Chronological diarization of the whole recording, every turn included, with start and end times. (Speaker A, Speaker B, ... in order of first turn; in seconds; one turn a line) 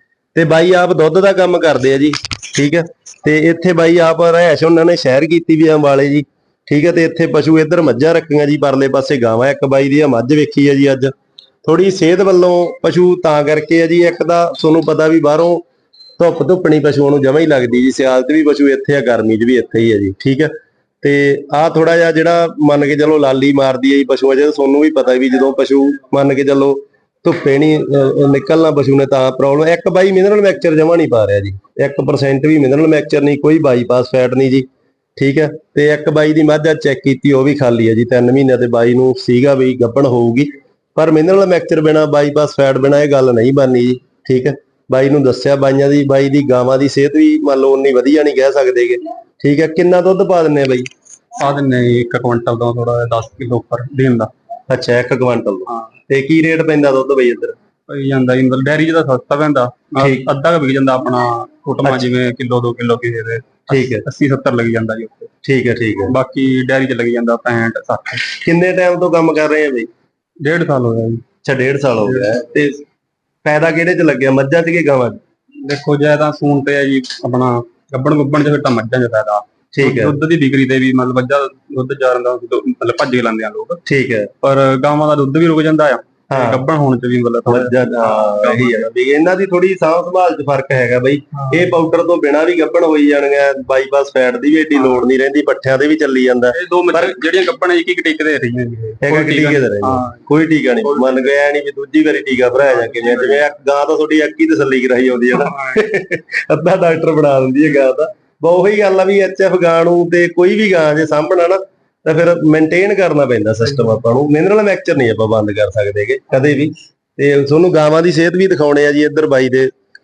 Speaker A: 0.3-11.1
Speaker A: 11.7-15.6
Speaker A: 16.2-34.7
Speaker A: 35.2-50.9
Speaker B: 51.4-54.3
Speaker A: 54.7-57.6
Speaker B: 55.7-55.9
Speaker B: 57.9-65.3
Speaker A: 60.0-60.3
Speaker A: 63.7-64.0
Speaker A: 65.4-66.1
Speaker B: 66.1-68.2
Speaker A: 68.3-69.9
Speaker B: 70.4-71.2
Speaker A: 71.4-72.8
Speaker B: 72.0-72.4
Speaker A: 73.5-75.2
Speaker B: 75.6-83.8
Speaker A: 79.7-80.2
Speaker A: 83.9-84.3
Speaker B: 84.4-88.8
Speaker A: 86.3-86.6
Speaker A: 87.5-97.2
Speaker B: 91.3-91.7
Speaker B: 94.8-95.1
Speaker B: 96.5-100.2
Speaker A: 99.0-119.7
Speaker B: 100.8-101.3
Speaker B: 102.6-103.4
Speaker B: 105.3-105.8